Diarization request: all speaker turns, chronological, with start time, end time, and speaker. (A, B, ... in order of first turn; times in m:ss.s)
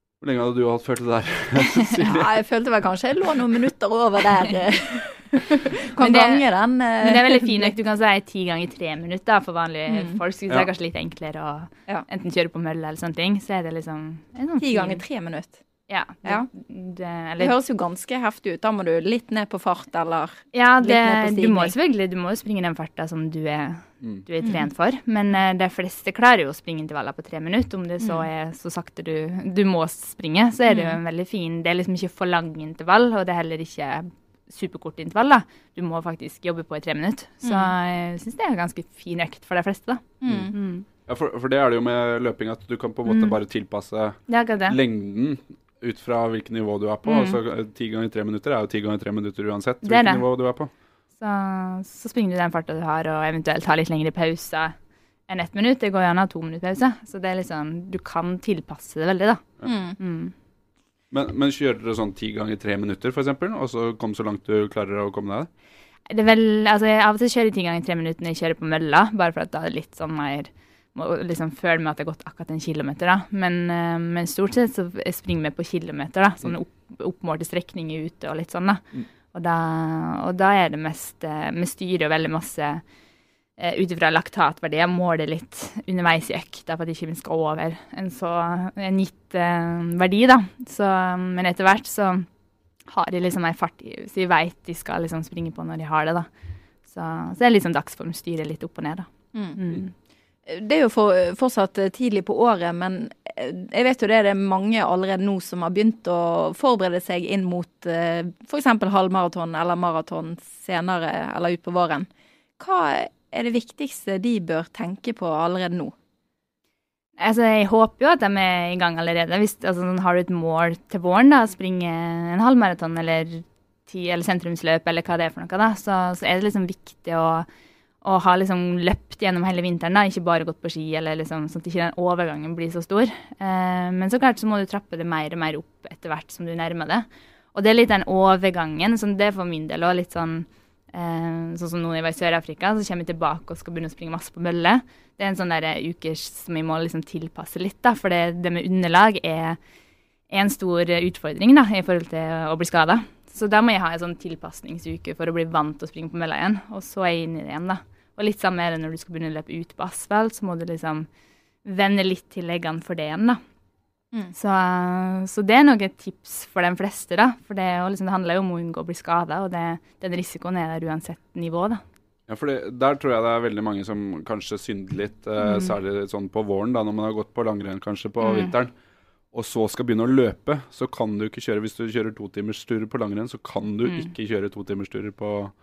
0:00.2-0:02.3 A
0:02.0-0:07.7 B
0:06.0-0:06.4 C
0:07.0-0:15.0 C
0:09.9-0:10.2 B
0:14.6-0:15.6 B
0:15.9-0:17.5 C
0:17.4-0:21.7 B
0:20.5-0:40.8 C
0:24.4-0:24.7 B
0:30.7-0:31.0 B
0:37.4-0:37.7 B
0:40.2-0:40.5 B
0:40.2-0:40.5 A
0:41.0-0:50.7 A
0:44.3-0:44.8 C
0:49.8-0:50.2 C
0:51.2-0:54.7 C
0:55.3-1:00.3 C
0:59.6-1:00.0 B
1:01.1-1:05.5 A
1:06.1-1:22.8 C
1:23.6-1:32.3 C
1:32.9-1:36.3 C
1:36.8-1:39.9 C
1:39.3-1:39.6 B
1:40.4-1:52.1 B
1:52.6-1:55.9 B
1:57.2-2:07.5 C
2:08.0-2:29.6 C
2:30.3-2:41.1 C
2:41.6-2:43.4 C
2:44.3-2:51.8 C
2:52.3-2:58.7 A
2:55.4-2:55.7 C
2:58.2-2:58.5 C
2:59.3-3:05.5 A
3:03.8-3:04.1 C